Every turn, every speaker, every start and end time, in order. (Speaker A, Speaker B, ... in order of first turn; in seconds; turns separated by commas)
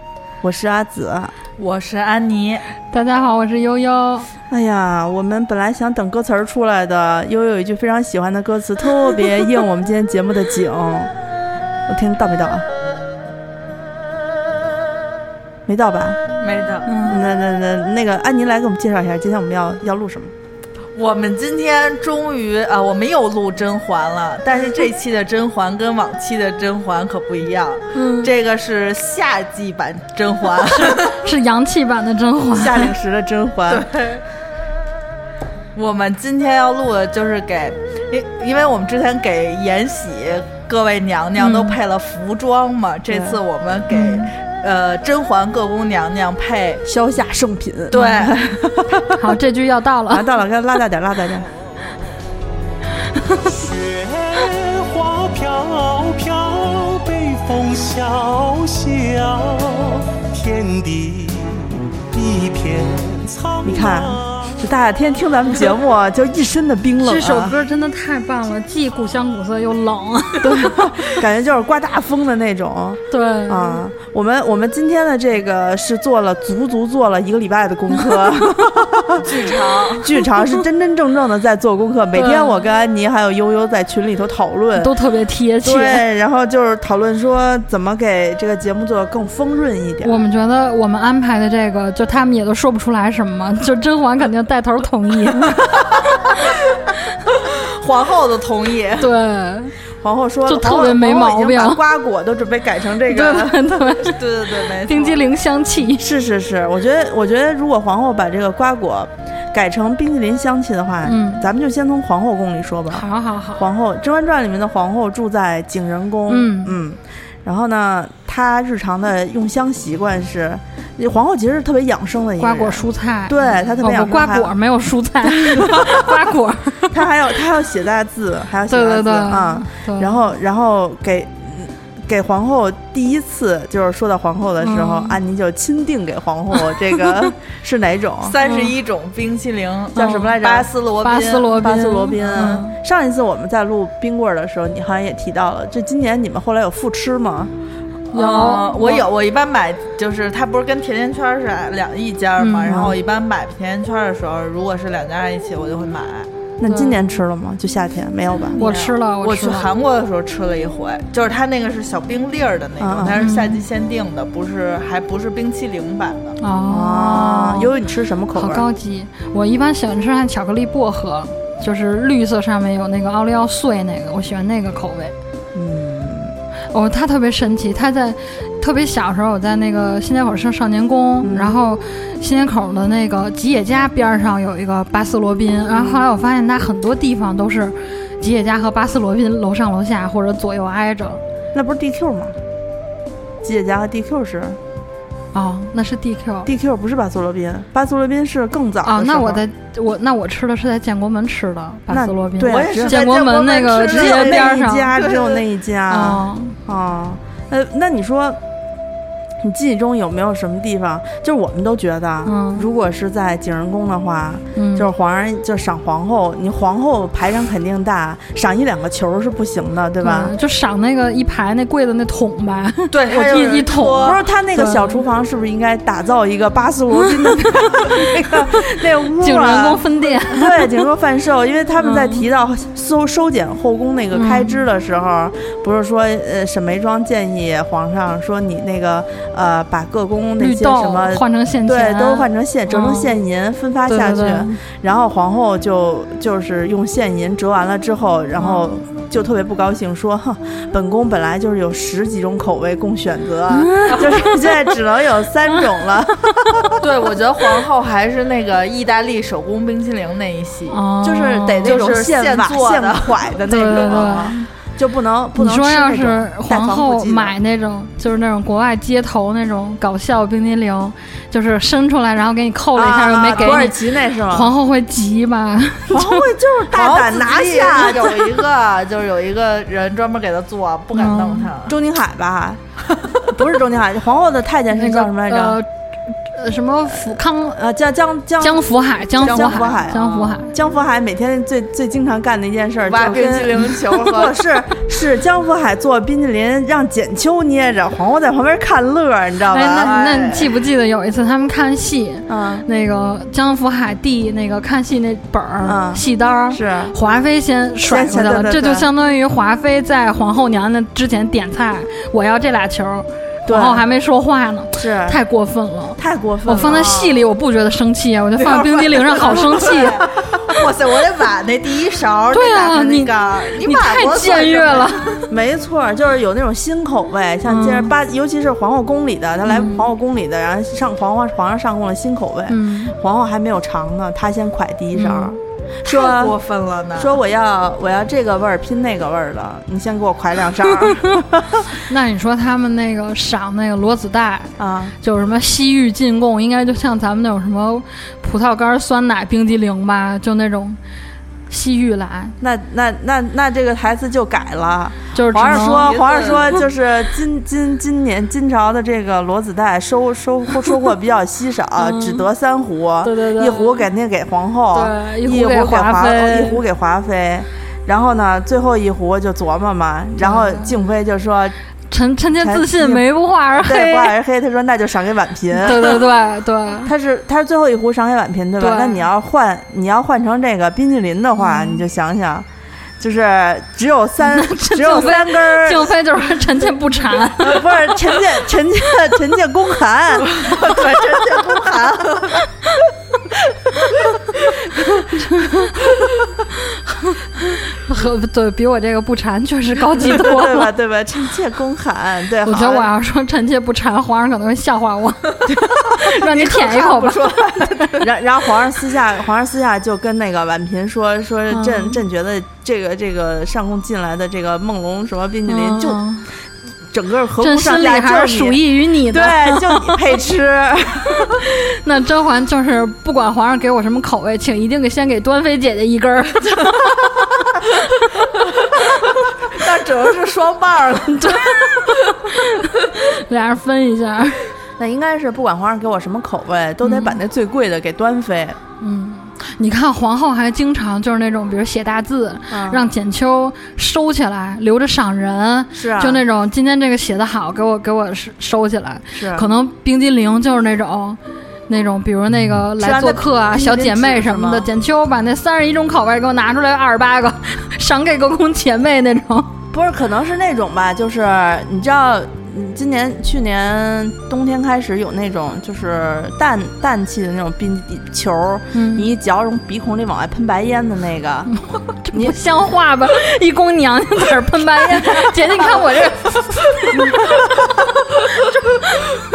Speaker A: 0.4-1.3, Speaker B: 1.6-2.6, Speaker C: 2.9-4.3, Speaker A: 4.5-11.1, Speaker A: 11.9-12.6, Speaker A: 15.7-16.2, Speaker B: 16.4-17.0, Speaker C: 16.9-17.2, Speaker A: 17.0-20.3, Speaker B: 20.9-31.2, Speaker C: 27.9-28.3, Speaker C: 30.7-32.9, Speaker A: 32.5-33.9, Speaker B: 33.7-34.2, Speaker B: 35.7-46.8, Speaker C: 41.4-41.8, Speaker A: 43.1-43.4, Speaker C: 43.9-44.3, Speaker A: 46.8-49.2, Speaker B: 47.9-48.4, Speaker C: 49.1-50.2, Speaker A: 50.1-51.5, Speaker D: 53.6-64.2, Speaker A: 63.6-67.5, Speaker C: 67.0-70.8, Speaker A: 70.4-84.9, Speaker C: 73.1-73.8, Speaker B: 79.2-80.1, Speaker C: 82.1-82.6, Speaker C: 84.8-86.0, Speaker A: 85.6-90.2, Speaker C: 90.0-96.0, Speaker B: 97.5-99.1, Speaker C: 99.0-99.7, Speaker A: 100.0-103.8, Speaker C: 100.5-101.8, Speaker C: 103.1-106.0, Speaker B: 104.0-105.2, Speaker A: 106.0-124.5, Speaker C: 111.0-111.5, Speaker C: 112.9-113.6, Speaker C: 116.3-116.8, Speaker C: 122.4-127.0, Speaker A: 125.4-126.1, Speaker A: 126.9-138.4, Speaker C: 128.7-130.2, Speaker C: 134.6-135.2, Speaker B: 138.2-141.7, Speaker C: 138.4-138.7, Speaker A: 139.9-140.7, Speaker C: 139.9-140.4, Speaker C: 141.0-142.8, Speaker A: 141.6-147.5, Speaker B: 148.1-156.3, Speaker C: 148.1-149.1, Speaker C: 152.4-152.8, Speaker A: 152.6-153.0, Speaker A: 156.6-158.6, Speaker C: 156.7-157.1, Speaker B: 158.5-166.4, Speaker C: 158.6-159.7, Speaker A: 162.8-163.2, Speaker C: 163.2-163.6, Speaker C: 166.4-167.7, Speaker A: 166.7-168.7, Speaker C: 168.3-175.1, Speaker A: 175.5-176.3, Speaker C: 176.7-191.2, Speaker A: 181.2-181.6, Speaker A: 185.7-186.1, Speaker A: 191.5-192.3, Speaker A: 193.4-194.6, Speaker C: 195.3-196.5, Speaker A: 196.4-199.4, Speaker C: 198.8-204.9, Speaker A: 201.9-203.1, Speaker B: 202.4-205.4, Speaker A: 203.8-208.4, Speaker C: 205.9-206.6, Speaker A: 209.4-220.3, Speaker C: 212.2-212.7, Speaker C: 214.5-214.9, Speaker C: 220.0-225.0, Speaker B: 222.9-224.2, Speaker A: 224.0-256.8, Speaker C: 227.0-228.6, Speaker C: 229.2-230.7, Speaker C: 231.8-232.2, Speaker C: 234.1-234.6, Speaker C: 240.4-243.1, Speaker C: 243.9-244.6, Speaker C: 248.4-248.7, Speaker C: 253.7-254.6, Speaker B: 256.8-260.8, Speaker C: 260.7-261.9, Speaker A: 261.0-267.4, Speaker B: 261.5-264.2, Speaker C: 263.4-264.4, Speaker C: 265.3-276.3, Speaker A: 272.7-274.5, Speaker A: 275.9-278.4, Speaker B: 276.7-281.8, Speaker C: 280.9-281.5, Speaker A: 281.7-282.6, Speaker A: 283.2-285.6, Speaker C: 284.7-285.7, Speaker C: 286.2-287.6, Speaker A: 287.5-299.9, Speaker C: 288.4-290.5, Speaker B: 289.2-290.4, Speaker B: 292.9-294.4, Speaker C: 299.5-320.0, Speaker B: 299.8-300.6, Speaker A: 302.3-302.6, Speaker A: 305.6-307.0, Speaker A: 307.8-308.9, Speaker A: 313.4-313.9, Speaker A: 314.7-315.2, Speaker A: 316.0-317.2, Speaker B: 318.4-325.1, Speaker C: 322.3-325.3, Speaker A: 325.3-336.4, Speaker C: 327.4-327.9, Speaker C: 329.5-329.9, Speaker C: 332.5-332.9, Speaker C: 334.9-335.4, Speaker B: 335.8-337.2, Speaker A: 336.9-341.6, Speaker C: 341.7-350.8, Speaker A: 344.6-344.9, Speaker C: 351.5-352.4, Speaker A: 352.4-371.5, Speaker C: 355.1-356.0, Speaker B: 355.5-356.6, Speaker C: 361.8-362.3, Speaker C: 363.0-363.9, Speaker C: 364.7-366.6, Speaker C: 370.2-370.8, Speaker C: 371.9-374.1, Speaker A: 372.3-376.0, Speaker C: 375.5-376.9, Speaker A: 376.8-382.5, Speaker C: 378.6-379.0, Speaker C: 381.4-381.8, Speaker A: 383.0-385.9, Speaker C: 384.2-387.6, Speaker A: 387.4-390.4, Speaker B: 390.2-392.4, Speaker C: 395.1-395.9, Speaker C: 396.6-400.7, Speaker A: 400.0-402.9, Speaker C: 402.4-405.4, Speaker B: 405.4-408.0, Speaker C: 405.9-407.9, Speaker A: 408.0-416.1, Speaker C: 411.5-412.0, Speaker C: 415.5-416.2, Speaker A: 416.9-421.4, Speaker C: 417.4-420.0, Speaker C: 421.1-427.2, Speaker B: 428.6-431.5, Speaker C: 431.1-434.5, Speaker A: 434.8-438.6, Speaker C: 436.8-437.2, Speaker C: 438.8-459.5, Speaker A: 442.5-442.8, Speaker A: 445.7-446.2, Speaker A: 449.1-449.5, Speaker A: 452.8-454.7, Speaker A: 459.7-471.5, Speaker C: 468.7-469.1, Speaker C: 471.5-477.6, Speaker C: 478.4-479.0